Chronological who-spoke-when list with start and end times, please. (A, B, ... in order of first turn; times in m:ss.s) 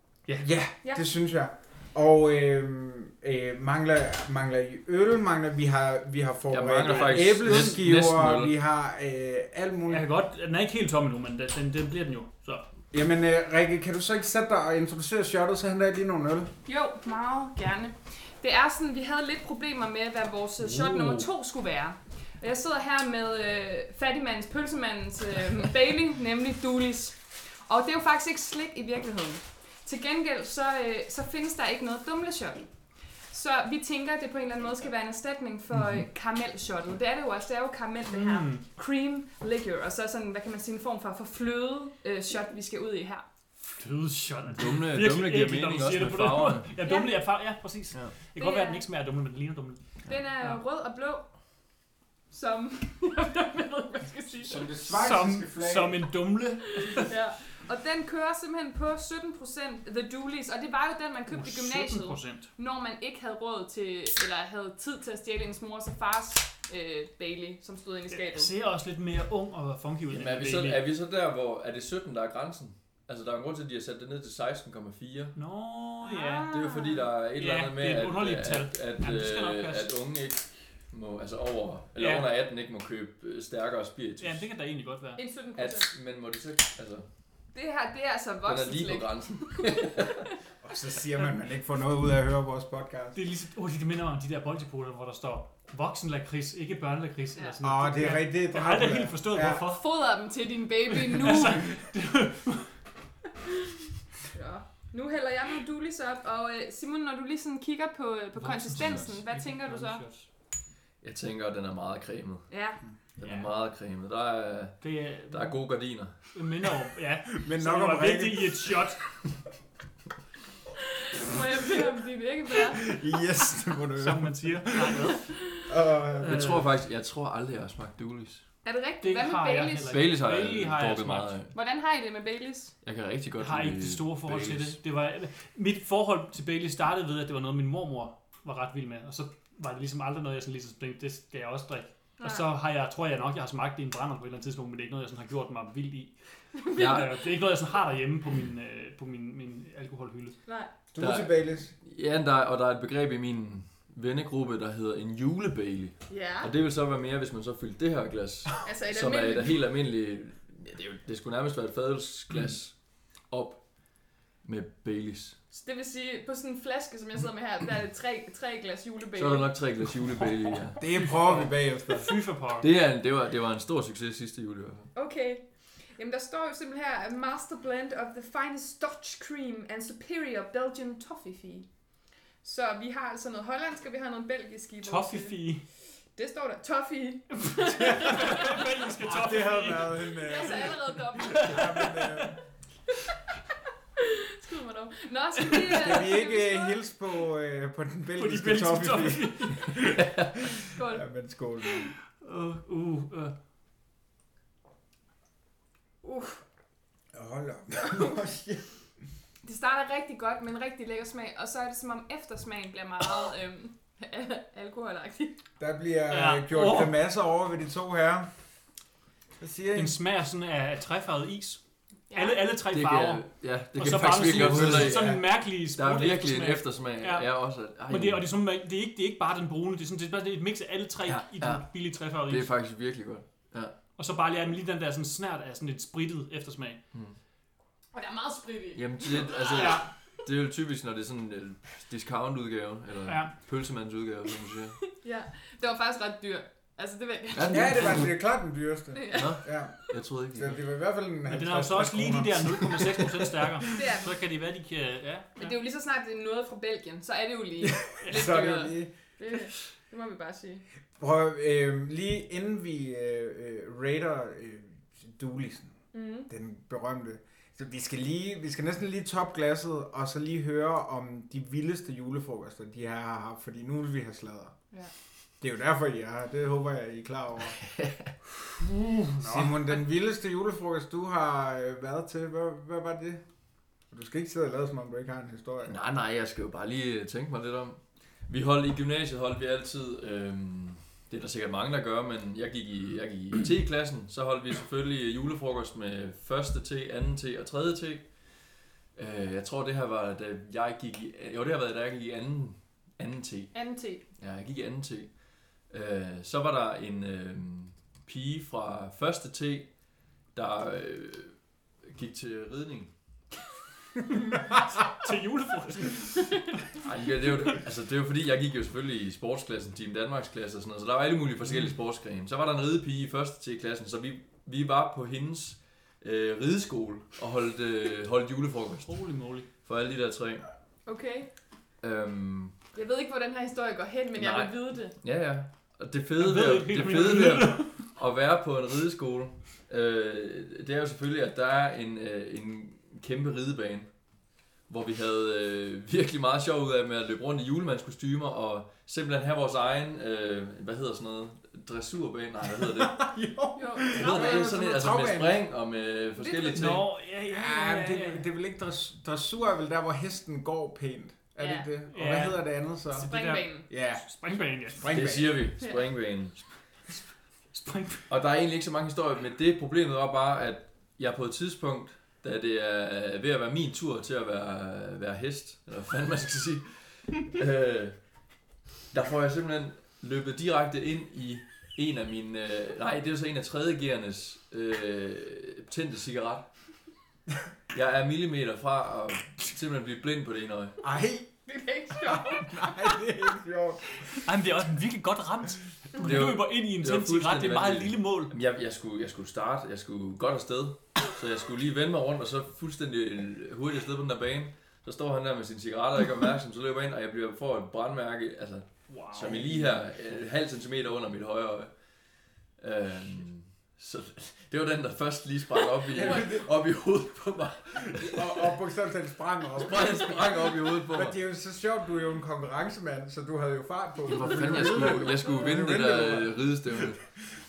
0:00.4-0:10.1 A
0:06.5-0:08.5 B
0:07.1-0:07.8 C
0:09.9-0:12.6 C
0:12.9-0:16.5 A
0:16.7-0:32.6 D
0:20.6-0:21.3 C
0:33.3-0:43.2 D
0:38.1-0:38.6 C
0:43.7-0:49.8 C
0:44.5-0:46.7 B
0:46.8-0:47.2 D
0:48.4-0:48.8 D
0:50.1-0:51.3 D
0:52.3-0:54.7 D
0:54.4-0:56.1 A
0:54.9-0:57.1 C
0:56.9-1:08.5 D
1:01.3-1:02.5 C
1:08.1-1:10.8 C
1:10.1-1:15.4 B
1:15.4-1:16.5 C
1:16.0-1:17.1 D
1:16.5-1:24.4 B
1:17.4-1:19.9 C
1:22.0-1:22.3 C
1:24.2-1:25.2 C
1:25.2-1:25.9 D
1:25.6-1:27.1 B
1:27.5-1:30.1 D
1:28.5-1:30.2 B
1:30.6-1:33.2 A
1:33.2-1:39.8 C
1:37.6-1:39.6 A
1:39.6-1:41.7 D
1:41.0-1:42.7 C
1:44.3-1:50.0 D
1:48.4-1:50.3 C
1:48.8-1:49.1 B
1:51.0-1:52.5 B
1:52.5-1:52.8 D
1:53.2-1:56.3 B
1:53.2-1:53.5 C
1:54.8-1:55.6 C
1:56.3-1:59.0 C
1:57.4-1:58.7 A
2:01.0-2:02.8 D
2:02.8-2:05.1 A
2:04.0-2:05.4 C
2:05.2-2:05.7 D
2:05.6-2:06.5 A
2:06.2-2:08.4 B
2:06.2-2:06.6 C
2:08.6-2:10.0 D
2:09.0-2:11.3 C
2:09.9-2:11.5 B
2:11.5-2:12.7 D
2:12.8-2:14.8 B
2:13.4-2:26.1 C
2:22.2-2:22.5 D
2:26.6-2:27.1 D
2:26.7-2:30.4 C
2:26.8-2:27.1 B
2:30.5-2:30.7 D
2:30.9-2:31.7 A
2:31.0-2:43.6 B
2:36.1-2:36.5 D
2:38.6-2:39.6 D
2:44.4-2:45.4 B
2:45.5-2:49.5 D
2:49.2-2:50.8 B
2:50.8-2:52.1 A
2:51.3-2:52.7 C
2:52.6-2:54.9 B
2:54.9-2:55.4 D
2:56.0-3:01.7 D
3:02.4-3:05.4 D
3:04.8-3:05.6 C
3:06.0-3:08.7 D
3:07.5-3:10.2 C
3:07.8-3:08.1 A
3:09.0-3:12.4 A
3:10.2-3:11.7 D
3:11.2-3:12.3 C
3:14.0-3:16.8 D
3:15.6-3:15.9 C
3:15.8-3:21.9 A
3:18.2-3:19.8 C
3:20.0-3:20.3 B
3:20.7-3:21.0 D
3:22.2-3:23.3 C
3:26.0-3:26.4 D
3:27.1-3:28.6 A
3:29.4-3:35.4 D
3:35.6-3:38.3 A
3:36.1-3:36.9 C
3:39.4-3:40.0 A
3:39.7-3:41.6 C
3:42.1-3:42.4 D
3:42.1-3:43.2 C
3:42.7-3:48.2 B
3:43.8-3:47.3 C
3:44.3-3:45.2 A
3:47.9-3:52.5 C
3:51.1-3:51.6 B
3:52.2-3:53.8 B
3:54.0-3:56.8 C
3:57.9-3:59.8 D
3:58.8-4:04.8 B
3:59.5-3:59.9 C
4:03.1-4:03.3 C
4:04.9-4:08.0 D
4:07.3-4:08.2 B
4:07.5-4:09.8 A
4:08.9-4:09.4 D
4:09.1-4:10.6 B
4:10.3-4:13.6 A
4:11.3-4:15.4 C
4:13.7-4:14.1 D
4:15.4-4:20.6 D
4:17.6-4:18.9 A
4:18.0-4:18.3 C
4:21.0-4:25.7 A
4:25.9-4:26.3 D
4:26.3-4:34.5 A
4:35.4-4:37.6 A
4:37.6-4:38.1 B
4:38.6-4:39.6 C
4:39.2-4:43.2 A
4:43.9-4:45.7 A
4:45.7-4:58.1 B
4:59.0-5:03.6 B
5:03.5-5:04.0 D
5:04.2-5:05.1 B
5:05.7-5:09.7 B
5:10.3-5:11.4 B
5:11.9-5:12.9 B
5:14.1-5:16.4 C
5:16.8-5:29.0 B
5:28.9-5:29.5 C
5:29.6-5:30.5 B
5:30.9-5:31.3 D
5:31.8-5:32.6 B
5:32.7-5:35.0 D
5:34.2-5:43.9 B
5:36.2-5:37.8 C
5:44.7-5:53.1 B
5:52.8-5:55.4 A
5:53.6-5:54.6 D
5:53.9-5:56.9 B
5:56.2-5:56.8 D
5:56.5-5:58.2 C
5:57.3-6:03.1 A
6:01.4-6:01.7 D
6:01.9-6:04.9 C
6:03.0-6:03.7 D
6:03.7-6:04.0 A
6:04.7-6:05.4 A
6:04.9-6:06.4 B
6:07.5-6:08.1 C
6:08.1-6:18.0 B
6:18.9-6:26.5 B
6:27.7-6:30.8 B
6:30.8-6:31.3 A
6:31.5-6:32.9 D
6:32.0-6:34.0 A
6:34.2-6:38.3 C
6:36.0-6:51.7 B
6:48.9-6:49.6 C
6:49.3-6:49.6 A
6:52.6-6:58.5 B
6:55.9-6:56.5 A
6:56.0-6:56.4 D
6:57.9-7:06.4 A
6:59.6-7:01.2 B
7:04.1-7:07.0 B